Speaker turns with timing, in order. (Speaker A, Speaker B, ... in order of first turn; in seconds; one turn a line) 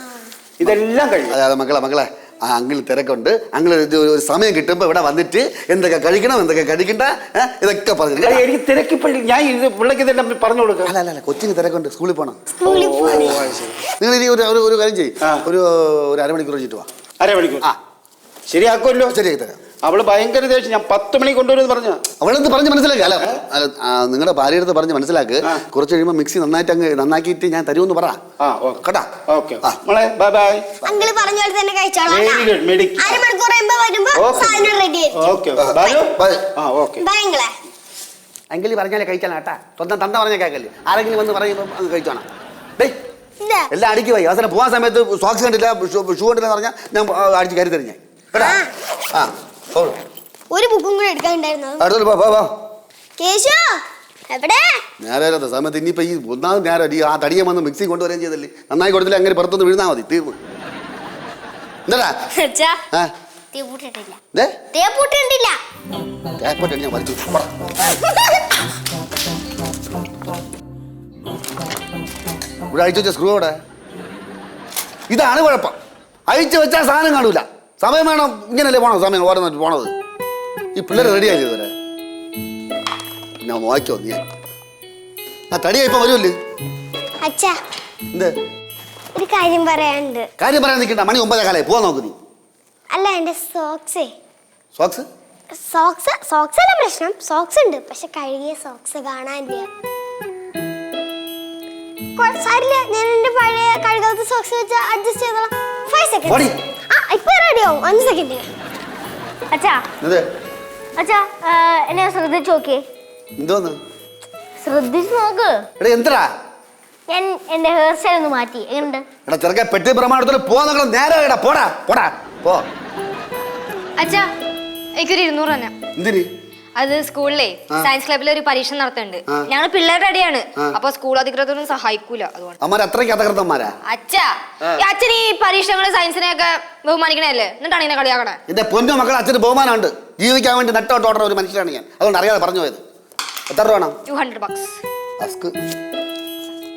Speaker A: 0.6-1.4
Speaker B: 1.3-8.5
Speaker A: 8.2-10.9
Speaker B: 10.8-12.4
Speaker C: 12.5-13.4
Speaker A: 12.6-13.8
Speaker B: 14.0-16.9
Speaker A: 17.2-17.7
Speaker A: 18.5-19.1
Speaker B: 19.1-19.6
Speaker A: 19.8-22.0
Speaker B: 22.2-28.2
Speaker A: 28.4-30.6
Speaker B: 28.8-29.8
Speaker C: 30.9-35.9
Speaker A: 32.1-33.2
Speaker A: 34.1-37.0
Speaker B: 35.6-36.5
Speaker C: 37.0-37.5
Speaker B: 38.5-42.2
Speaker C: 43.4-43.7
Speaker B: 43.7-48.6
Speaker C: 48.4-48.7
Speaker B: 49.1-50.0
Speaker C: 50.5-51.9
Speaker B: 51.8-52.5
Speaker C: 53.2-54.8
Speaker B: 55.0-60.4
Speaker B: 61.9-62.1
Speaker D: 62.4-62.8
Speaker D: 63.5-64.2
Speaker D: 64.7-65.6
Speaker B: 66.4-67.5
Speaker B: 72.7-73.6
Speaker B: 75.1-75.8
Speaker B: 76.3-79.9
Speaker B: 80.8-81.7
Speaker B: 83.4-84.2
Speaker B: 85.5-86.3
Speaker C: 87.2-87.5
Speaker C: 89.1-90.3
Speaker B: 90.4-92.2
Speaker C: 92.9-94.1
Speaker B: 94.8-95.1
Speaker C: 95.5-99.7
Speaker C: 102.2-108.4
Speaker B: 106.2-106.5
Speaker D: 109.5-109.8
Speaker D: 111.0-112.8
Speaker B: 113.4-113.8
Speaker D: 114.6-115.6
Speaker B: 115.8-116.3
Speaker D: 117.1-119.0
Speaker B: 119.2-122.6
Speaker E: 124.0-124.3
Speaker E: 125.0-125.7
Speaker B: 126.0-126.3
Speaker E: 126.8-132.6
Speaker B: 132.6-133.8
Speaker E: 133.9-138.4
Speaker B: 138.5-142.8
Speaker B: 143.5-144.0
Speaker E: 144.1-144.8
Speaker B: 145.2-145.5